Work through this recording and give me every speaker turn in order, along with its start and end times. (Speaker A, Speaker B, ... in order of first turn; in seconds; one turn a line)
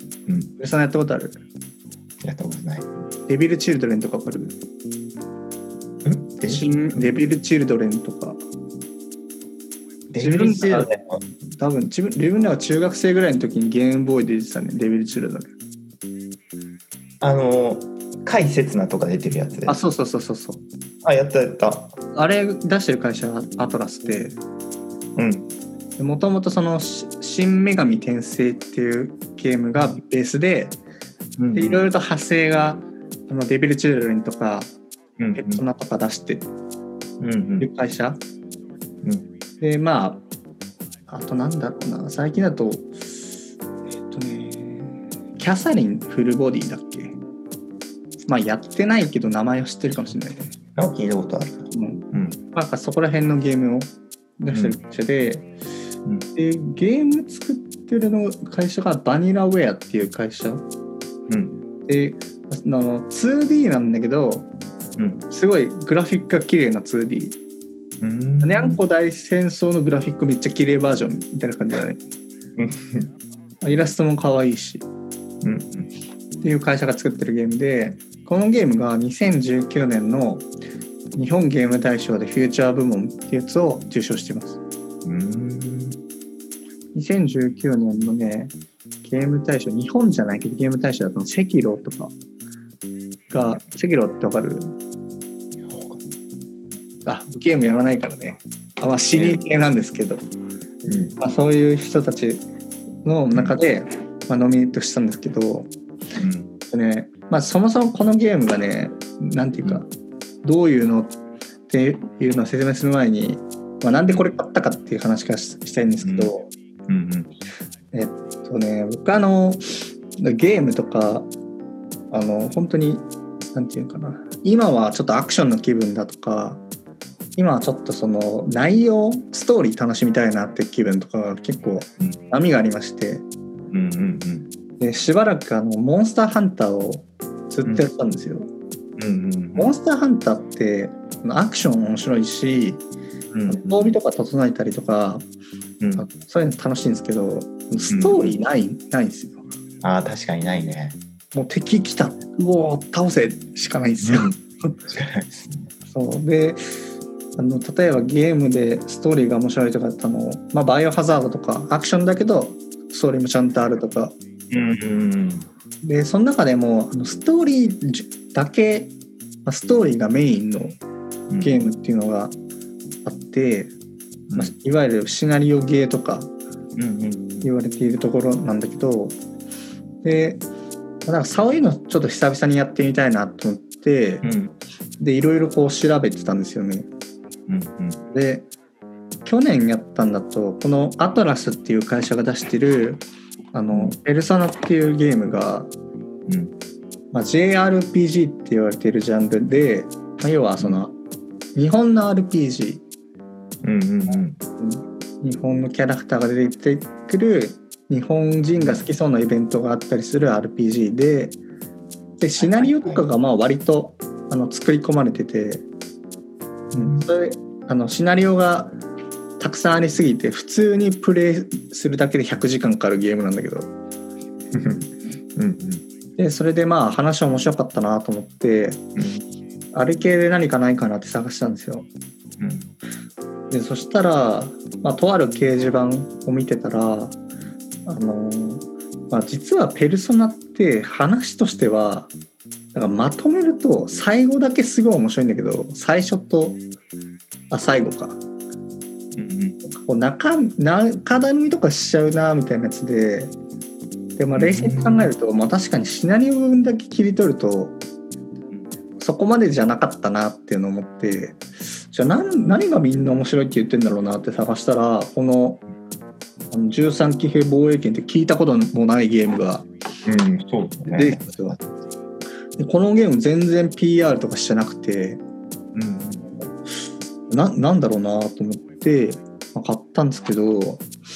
Speaker A: 0.3-0.5
Speaker B: 0.6-1.4
Speaker A: 2.2-2.9
Speaker B: 3.3-4.5
Speaker A: 6.0-7.1
Speaker B: 6.5-8.4
Speaker A: 10.1-11.2
Speaker B: 10.2-10.9
Speaker B: 11.6-15.5
Speaker A: 17.2-19.8
Speaker B: 19.7-20.6
Speaker A: 21.0-21.9
Speaker B: 22.1-24.4
Speaker A: 25.1-25.5
Speaker B: 26.0-30.8
Speaker A: 31.4-31.8
Speaker B: 31.5-34.7
Speaker A: 35.2-35.6
Speaker B: 35.3-36.5
Speaker A: 37.2-37.7
Speaker B: 37.6-38.2
Speaker B: 39.6-40.2
Speaker B: 41.1-43.0
Speaker B: 43.9-47.1
Speaker B: 48.3-50.5
Speaker A: 50.8-52.4
Speaker B: 51.7-52.0
Speaker B: 52.5-55.5
Speaker A: 54.5-54.8
Speaker B: 56.3-60.6
Speaker A: 61.3-61.6
Speaker B: 61.9-64.5
Speaker A: 65.0-65.2
Speaker B: 65.3-67.4
Speaker A: 68.0-68.8
Speaker B: 68.4-72.0
Speaker A: 72.5-73.1
Speaker B: 73.6-74.8
Speaker A: 75.4-75.9
Speaker B: 76.4-80.5
Speaker B: 81.2-84.6
Speaker A: 85.0-86.0
Speaker B: 86.9-88.5
Speaker B: 89.0-92.1
Speaker B: 93.3-94.7
Speaker A: 95.6-96.1
Speaker B: 97.0-100.2
Speaker A: 99.1-99.4
Speaker A: 100.8-101.2
Speaker B: 101.2-102.4
Speaker B: 103.0-105.7
Speaker A: 106.2-106.5
Speaker B: 106.7-109.9
Speaker B: 110.4-111.1
Speaker B: 111.7-116.5
Speaker A: 116.0-116.3
Speaker A: 116.9-117.3
Speaker B: 117.9-121.3
Speaker B: 122.1-126.6
Speaker B: 127.3-133.2
Speaker A: 133.7-134.5
Speaker B: 134.8-138.5
Speaker A: 139.0-139.7
Speaker B: 139.6-142.8
Speaker A: 143.3-143.9
Speaker B: 143.5-145.2
Speaker A: 145.8-146.1
Speaker B: 145.9-149.4
Speaker A: 147.9-148.3
Speaker A: 149.8-151.0
Speaker B: 151.3-154.8
Speaker A: 154.0-154.3
Speaker A: 154.9-155.7
Speaker B: 155.9-156.6
Speaker B: 157.4-164.1
Speaker A: 164.5-165.5
Speaker B: 165.8-168.9
Speaker B: 169.4-170.8
Speaker A: 171.3-171.6
Speaker B: 171.4-172.3
Speaker B: 173.0-173.7
Speaker B: 174.3-176.3
Speaker A: 176.8-177.5
Speaker B: 177.4-179.2
Speaker B: 180.0-180.4
Speaker B: 181.1-184.2
Speaker A: 184.2-184.5
Speaker B: 185.0-186.9
Speaker A: 187.5-188.0
Speaker B: 188.1-188.5
Speaker B: 189.2-193.0
Speaker B: 193.5-195.7
Speaker A: 196.3-196.5
Speaker B: 197.1-200.9
Speaker B: 201.5-202.8
Speaker A: 203.6-204.4
Speaker B: 204.1-211.4
Speaker B: 212.2-215.6
Speaker A: 212.4-213.0
Speaker A: 216.7-217.1
Speaker B: 216.7-218.7
Speaker B: 219.4-223.7
Speaker A: 224.5-225.8
Speaker B: 226.2-228.8
Speaker A: 228.9-229.2
Speaker B: 229.7-231.9
Speaker A: 232.4-232.7
Speaker B: 233.5-237.2
Speaker B: 237.8-242.1
Speaker B: 242.7-246.6
Speaker B: 247.5-248.2
Speaker A: 249.1-249.6
Speaker B: 249.6-253.3
Speaker B: 254.2-257.7
Speaker A: 254.3-255.1
Speaker B: 259.0-265.6
Speaker B: 266.5-269.6
Speaker A: 270.0-271.6
Speaker B: 270.9-271.6
Speaker B: 272.6-275.2
Speaker A: 275.7-276.3
Speaker B: 277.3-280.9